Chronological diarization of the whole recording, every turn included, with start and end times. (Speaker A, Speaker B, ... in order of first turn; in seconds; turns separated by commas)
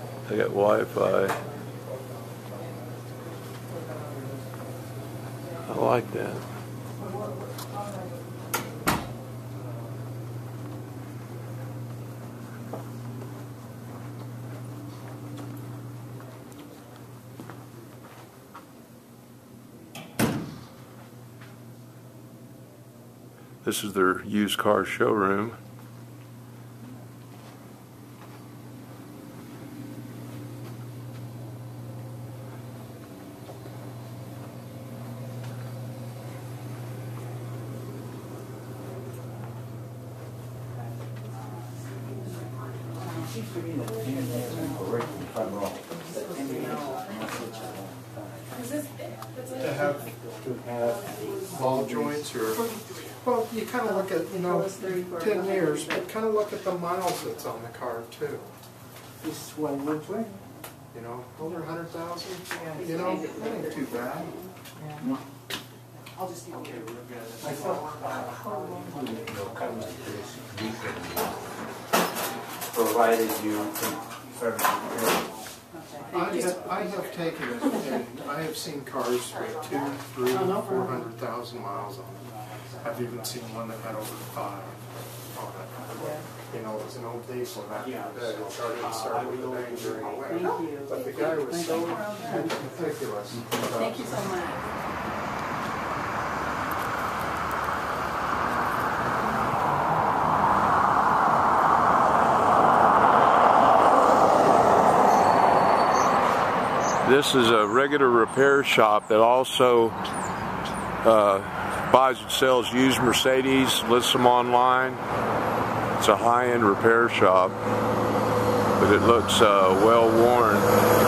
Speaker A: 0.3-1.4, Speaker A: 5.6-6.5, Speaker A: 23.6-25.6, Speaker B: 43.6-48.2, Speaker C: 44.1-44.9, Speaker C: 46.1-47.2, Speaker D: 46.3-47.0, Speaker C: 48.5-50.0, Speaker D: 49.6-50.1, Speaker B: 49.8-52.3, Speaker D: 51.4-58.5, Speaker C: 53.9-56.0, Speaker B: 59.2-60.4, Speaker D: 60.9-64.4, Speaker C: 62.6-65.0, Speaker A: 62.8-63.4, Speaker C: 66.2-66.6, Speaker D: 66.5-69.3, Speaker B: 67.5-71.1, Speaker B: 72.8-75.3, Speaker C: 75.7-76.8, Speaker D: 76.1-94.4, Speaker C: 80.4-81.0, Speaker B: 87.9-88.7, Speaker B: 89.3-90.1, Speaker C: 90.2-92.7, Speaker B: 93.4-93.8, Speaker C: 93.8-94.6, Speaker A: 107.0-110.0, Speaker A: 111.0-115.0, Speaker A: 116.0-117.6, Speaker A: 118.8-120.7